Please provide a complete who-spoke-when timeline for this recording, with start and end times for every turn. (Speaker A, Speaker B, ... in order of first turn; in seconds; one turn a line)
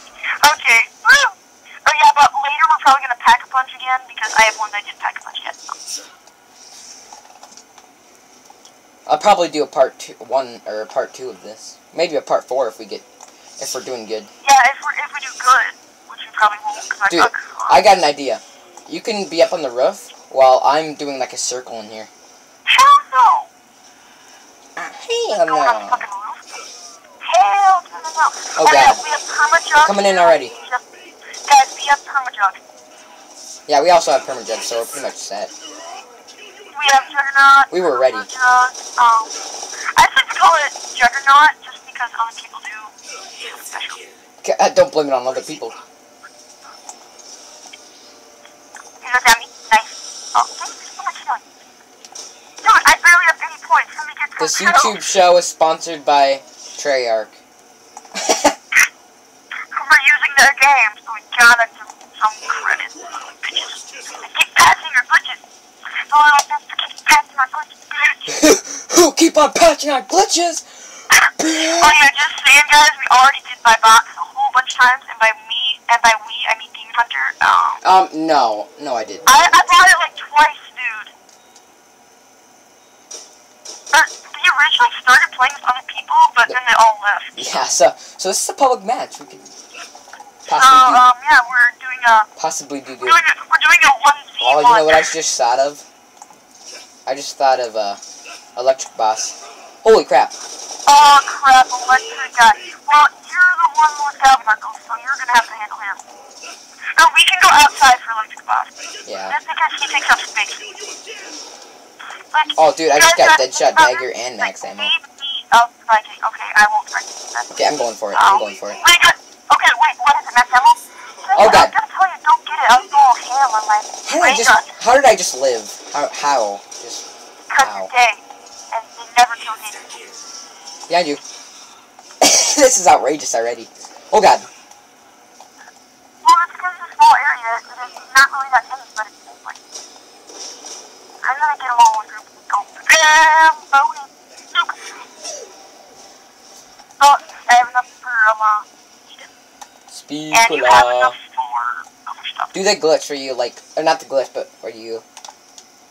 Speaker A: 0.4-5.8
Speaker B: 9.1-13.1
Speaker B: 13.6-14.3
Speaker A: 14.4-17.8
Speaker B: 17.1-22.1
Speaker A: 22.7-23.5
Speaker B: 24.8-26.1
Speaker A: 25.3-26.5
Speaker A: 27.2-30.8
Speaker B: 28.6-29.0
Speaker B: 29.8-30.5
Speaker A: 31.5-32.6
Speaker B: 33.7-35.5
Speaker A: 36.7-39.3
Speaker B: 37.7-38.3
Speaker A: 40.0-44.1
Speaker B: 44.4-45.8
Speaker A: 49.0-51.4
Speaker A: 52.6-55.0
Speaker B: 54.4-57.4
Speaker B: 58.2-58.5
Speaker A: 59.7-65.4
Speaker A: 65.9-68.3
Speaker B: 68.3-72.0
Speaker A: 71.2-77.8
Speaker B: 77.8-79.5
Speaker A: 79.2-81.1
Speaker A: 83.9-87.6
Speaker B: 87.4-89.5
Speaker B: 90.5-91.0
Speaker A: 90.5-92.3
Speaker B: 92.4-93.2
Speaker A: 93.0-95.1
Speaker B: 94.4-95.8
Speaker B: 97.1-98.0
Speaker B: 98.6-100.3
Speaker A: 100.9-106.0
Speaker A: 106.9-108.7
Speaker B: 109.0-109.4
Speaker A: 109.3-110.7
Speaker A: 112.3-117.5
Speaker B: 112.6-114.9
Speaker B: 117.5-118.8
Speaker A: 118.1-124.7
Speaker B: 121.3-121.7
Speaker B: 124.0-127.1
Speaker A: 127.5-130.1
Speaker B: 127.6-127.9
Speaker B: 130.9-131.2
Speaker B: 132.2-134.5
Speaker A: 136.2-139.6
Speaker A: 141.2-144.8
Speaker A: 147.0-149.3
Speaker B: 149.9-151.2
Speaker A: 150.3-152.5
Speaker B: 152.5-155.0